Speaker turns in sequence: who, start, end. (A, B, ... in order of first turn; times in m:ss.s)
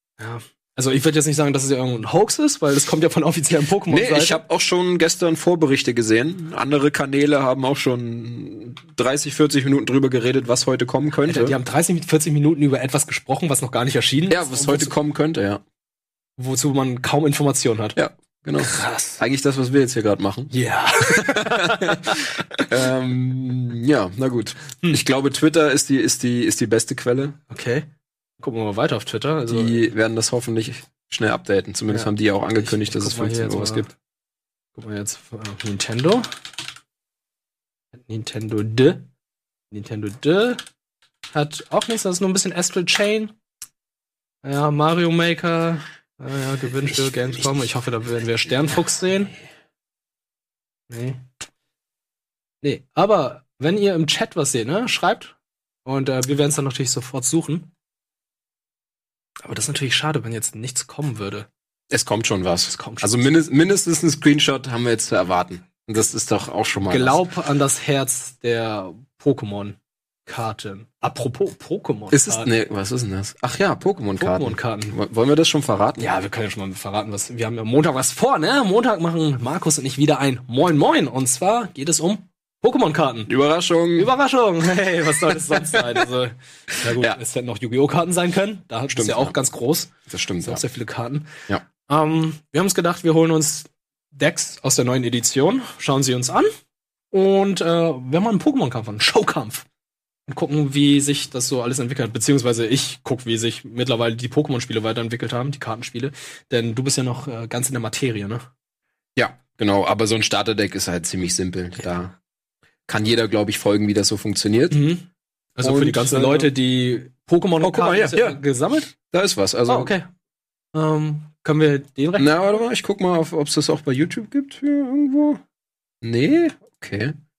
0:00.2-0:04.4 A
0:03.9-0:11.6 B
0:11.2-0:15.0 A
0:14.3-0:15.6 B
0:16.4-0:18.0 A
0:18.0-0:27.4 B
0:18.6-0:19.2 A
0:20.5-0:22.7 A
0:27.5-0:27.9 A
0:28.4-0:29.9 A
0:29.5-0:33.9 B
0:31.9-0:33.9 A
0:34.8-0:36.3 A
0:37.9-0:39.1 A
0:39.7-0:40.6 A
0:41.3-0:43.3 A
0:44.4-0:49.3 A
0:50.9-0:51.2 A
0:52.6-0:57.7 A
0:59.4-1:01.5 A
1:01.9-1:07.2 B
1:02.7-1:03.3 A
1:06.9-1:12.5 A
1:12.1-1:16.0 B
1:14.2-1:15.0 A
1:16.0-1:23.3 A
1:23.3-1:24.1 B
1:24.0-1:31.3 A
1:25.5-1:25.8 B
1:26.9-1:27.2 B
1:28.9-1:29.4 B
1:30.1-1:30.6 B
1:31.9-1:36.5 A
1:37.1-1:39.7 A
1:40.3-1:48.5 A
1:49.2-1:52.2 B
1:52.9-1:54.8 B
1:54.7-1:58.9 A
1:55.6-1:56.5 B
1:57.6-1:59.9 B
1:59.7-2:00.1 A
2:00.7-2:02.3 A
2:02.2-2:05.4 B
2:06.0-2:07.2 B